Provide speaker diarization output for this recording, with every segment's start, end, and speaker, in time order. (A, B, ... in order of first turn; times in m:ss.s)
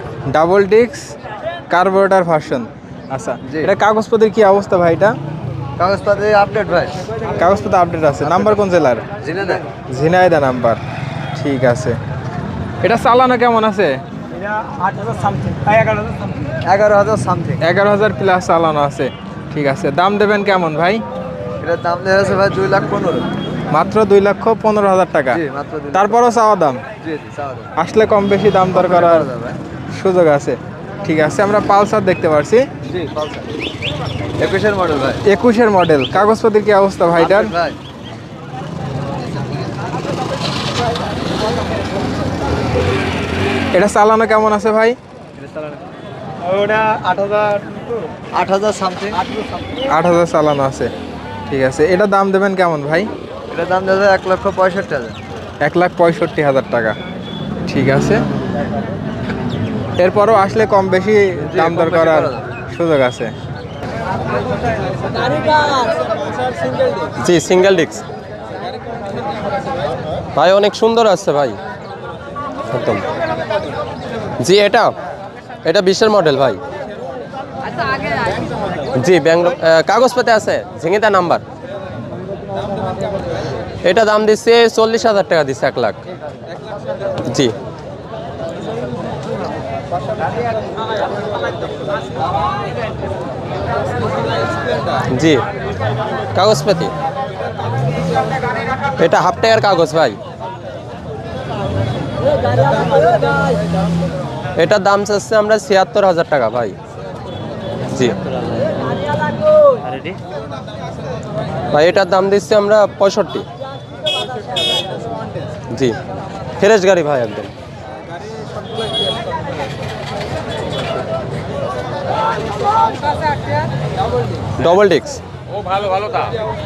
0:00.3-0:01.1 A
0:01.7-0:05.2 A
0:03.4-0:03.7 B
0:05.8-0:07.0 B
0:07.3-0:09.0 A
0:09.2-0:09.6 B
0:09.9-0:10.8 A
0:11.3-0:12.0 A
0:12.8-0:14.0 A
0:14.6-0:15.9 B
0:16.6-0:17.6 B
0:17.6-0:21.0 A
0:21.6-0:23.3 B
0:23.7-0:25.4 A
0:25.3-0:26.2 B
0:25.9-0:26.8 A
0:27.0-0:27.7 B
0:27.8-0:29.3 A
0:28.7-0:29.6 B
0:29.9-0:32.7 A
0:32.8-0:33.5 B
0:34.4-0:35.2 B
0:35.2-0:37.5 A
0:37.1-0:37.8 B
0:43.7-0:45.0 A
0:45.4-0:45.8 B
0:46.4-0:49.3 B
0:49.9-0:50.9 A
0:51.5-0:53.1 A
0:53.5-0:55.2 B
0:55.6-0:57.0 A
0:57.7-0:58.2 A
1:00.0-1:03.3 A
1:01.4-1:02.4 B
1:07.1-1:08.0 C
1:08.9-1:09.7 A
1:10.3-1:11.6 C
1:12.7-1:13.0 C
1:14.4-1:14.9 C
1:15.6-1:16.6 C
1:18.9-1:21.4 C
1:23.8-1:26.0 C
1:27.2-1:27.5 C
1:35.1-1:35.4 C
1:36.3-1:36.9 C
1:39.0-1:40.2 C
1:44.6-1:46.8 C
1:47.9-1:48.2 C
1:51.7-1:53.4 C
1:54.8-1:55.3 A
1:55.7-1:56.0 C
1:56.6-1:57.5 C
1:58.2-1:59.5 A
2:04.6-2:05.2 C
2:05.8-2:06.2 A